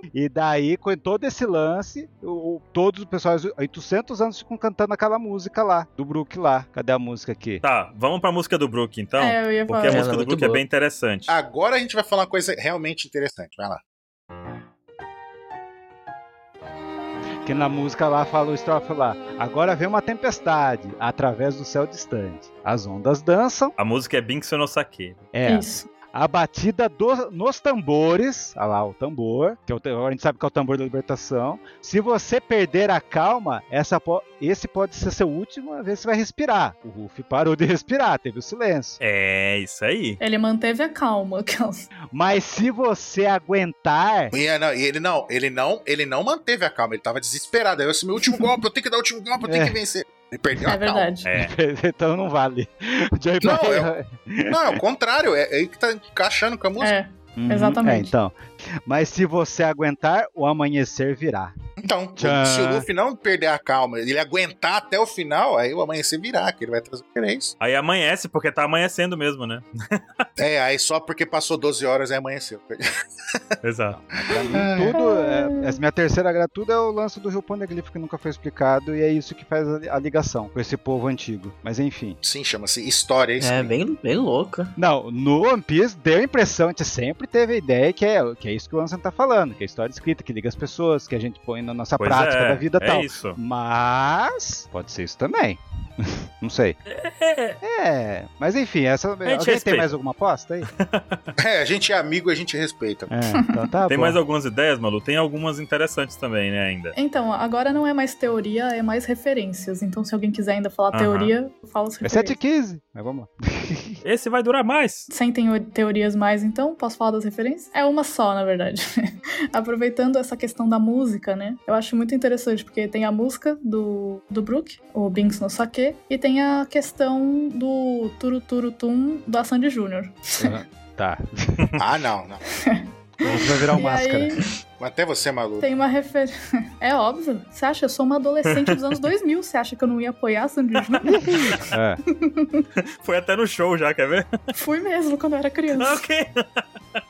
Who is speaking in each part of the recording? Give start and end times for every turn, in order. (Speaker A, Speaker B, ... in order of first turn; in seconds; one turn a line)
Speaker A: 0.1-7.6
Speaker B: 7.6-11.3
Speaker C: 9.2-10.1
Speaker D: 9.9-10.6
Speaker E: 11.3-13.8
Speaker A: 17.4-23.8
Speaker B: 23.8-25.2
Speaker A: 25.3-39.0
Speaker C: 25.5-25.9
Speaker B: 39.0-40.2
Speaker C: 40.2-41.8
Speaker A: 42.1-44.3
Speaker E: 44.3-51.1
Speaker A: 49.4-49.8
Speaker C: 50.6-51.3
Speaker B: 51.2-51.5
Speaker A: 51.4-54.8
Speaker E: 53.4-53.9
Speaker E: 54.5-56.9
Speaker C: 56.8-58.1
Speaker A: 57.4-61.5
Speaker E: 61.8-67.5
Speaker A: 62.2-62.9
Speaker B: 67.6-70.2
Speaker E: 70.4-72.8
Speaker B: 73.6-74.0
Speaker A: 73.9-82.2
Speaker E: 74.2-75.0
Speaker C: 74.9-75.8
Speaker E: 82.2-83.8
Speaker D: 83.4-84.7
Speaker A: 84.8-96.8
Speaker B: 92.0-93.4
Speaker B: 96.9-97.6
Speaker A: 97.6-100.7
Speaker B: 99.2-99.9
Speaker B: 100.7-101.2
Speaker E: 101.4-103.1
Speaker A: 103.1-104.2
Speaker B: 103.9-107.0
Speaker C: 106.9-112.4
Speaker B: 110.9-111.3
Speaker A: 112.0-114.0
Speaker B: 114.0-115.1
Speaker C: 115.1-130.6
Speaker A: 130.4-131.8
Speaker E: 131.8-132.4
Speaker C: 132.6-134.5
Speaker A: 133.2-134.3
Speaker E: 134.8-135.7
Speaker C: 135.6-141.1
Speaker B: 138.5-138.8
Speaker A: 141.1-142.0
Speaker C: 142.1-142.6
Speaker B: 143.0-144.3
Speaker C: 144.5-146.1
Speaker B: 145.8-146.6